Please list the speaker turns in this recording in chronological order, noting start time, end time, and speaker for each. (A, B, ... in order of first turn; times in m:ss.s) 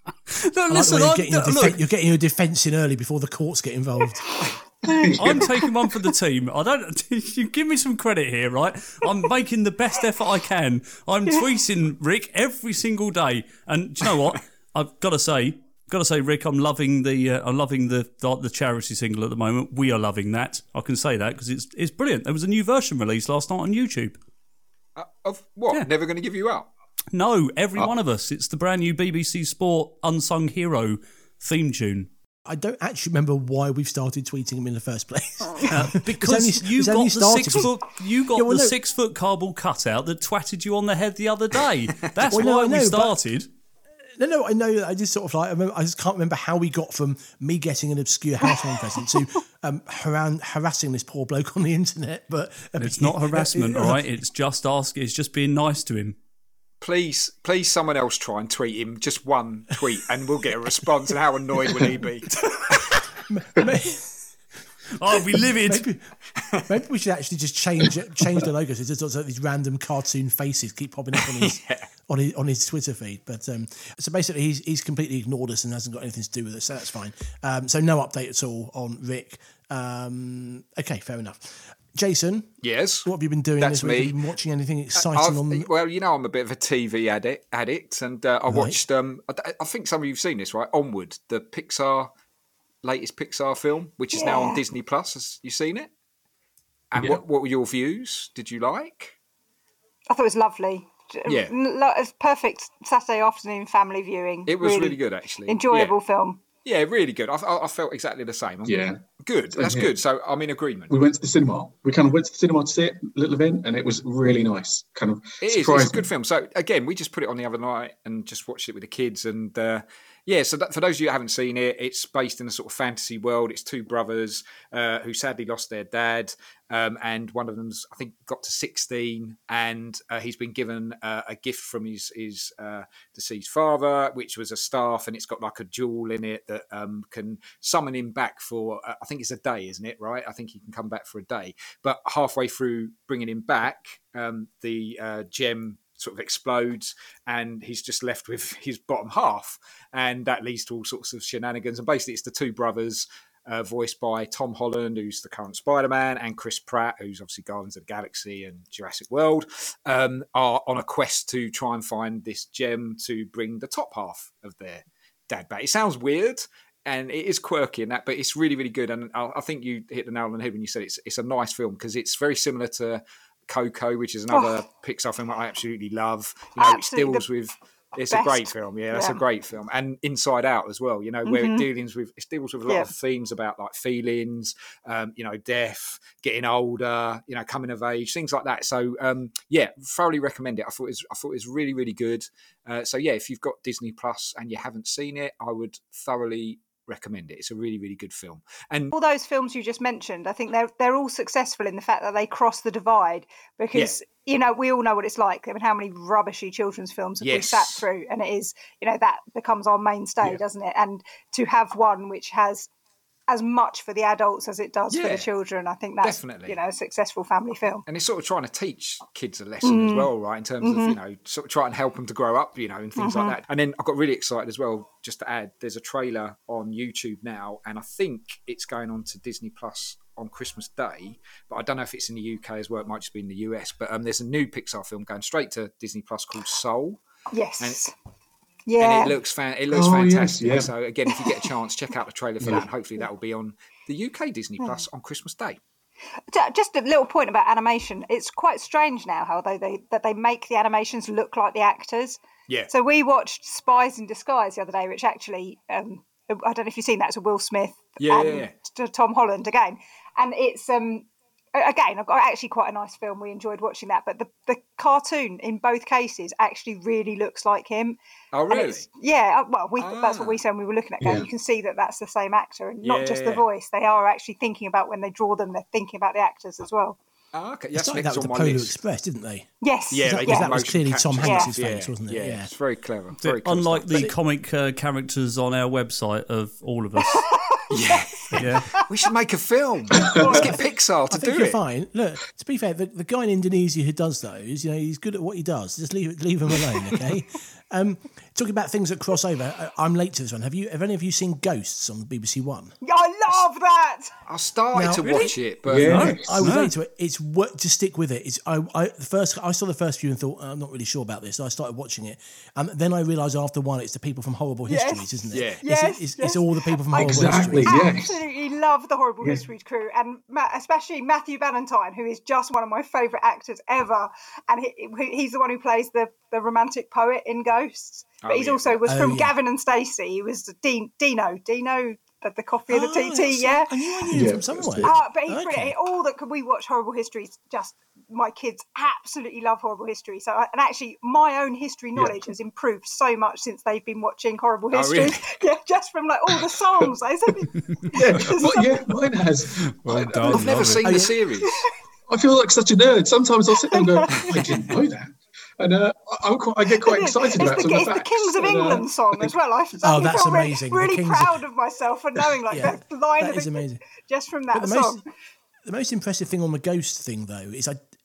0:00.3-0:01.8 A
0:00.7-0:04.2 B
0:04.3-0:05.2 C
0:04.9-0:05.5 D
0:05.2-0:24.2 A
0:25.0-0:26.7 E
0:27.1-0:32.1 A
0:32.4-0:37.8 B
0:35.6-0:43.5 A
0:38.3-0:38.8 B
0:42.3-0:43.2 B
0:44.2-0:54.0 B
0:52.8-0:56.2 A
0:56.8-1:02.3 E
1:03.3-1:04.1 B
1:04.9-1:05.8 A
1:05.1-1:06.1 B
1:06.6-1:22.5 B
1:11.2-1:11.8 E
1:22.6-1:23.1 E
1:23.0-1:25.7 B
1:23.6-1:24.2 E
1:24.9-1:32.1 E
1:28.5-1:28.8 B
1:32.8-1:35.9 E
1:34.1-1:34.6 C
1:36.9-1:39.2 E
1:40.1-1:46.4 C
1:41.2-1:41.5 E
1:44.4-1:45.9 E
1:46.6-1:50.9 E
1:48.6-1:49.0 D
1:49.5-1:49.9 D
1:50.9-1:56.1 D
1:55.4-3:18.9 E
2:54.3-2:54.6 C
2:56.6-2:57.2 C
2:58.1-2:59.2 C
3:01.2-3:01.7 C
3:02.6-3:02.9 C
3:18.9-3:32.7 C
3:27.2-3:27.8 E
3:33.3-3:37.8 C
3:34.9-3:35.3 E
3:36.0-3:36.6 E
3:37.9-3:57.0 E
3:39.6-3:40.1 C
3:40.6-3:41.0 C
3:43.0-3:43.4 C
3:57.3-3:57.9 C
3:58.7-3:59.1 C
3:58.8-4:05.6 E
3:59.7-4:00.7 D
4:06.3-4:28.0 C
4:18.0-4:18.5 E
4:28.3-4:28.8 E
4:28.5-4:37.0 C
4:29.8-4:30.4 E
4:31.0-4:31.3 D
4:32.8-4:33.4 E
4:37.3-4:38.8 E
4:37.7-4:42.5 B
4:39.6-4:40.5 C
4:39.9-4:44.1 E
4:41.2-4:41.5 C
4:43.2-4:47.3 A
4:47.1-4:48.2 C
4:47.7-4:51.6 E
4:48.4-4:48.8 A
4:49.9-4:50.5 D
4:50.1-4:50.5 C
4:51.1-5:02.7 B
5:02.8-5:04.1 C
5:04.3-5:06.1 E
5:04.7-5:05.3 B
5:05.0-5:06.7 A
5:05.6-5:06.4 D
5:05.9-5:17.8 B
5:14.7-5:34.1 C
5:15.3-5:15.6 E
5:16.9-5:18.2 D
5:28.2-5:28.9 E
5:28.8-5:29.3 B
5:32.7-5:35.8 B
5:34.1-5:34.9 D
5:34.8-5:48.9 C
5:44.7-5:45.3 E
5:47.5-5:47.9 A
5:47.9-5:50.7 D
5:49.6-5:50.9 A
5:50.3-5:51.6 E
5:50.8-5:51.2 B
5:51.4-5:51.7 C
5:52.1-5:59.3 D
5:53.6-5:54.6 C
5:56.7-6:05.0 C
5:59.8-6:01.4 B
6:02.5-6:03.8 B
6:04.5-6:05.0 B
6:05.6-6:07.8 B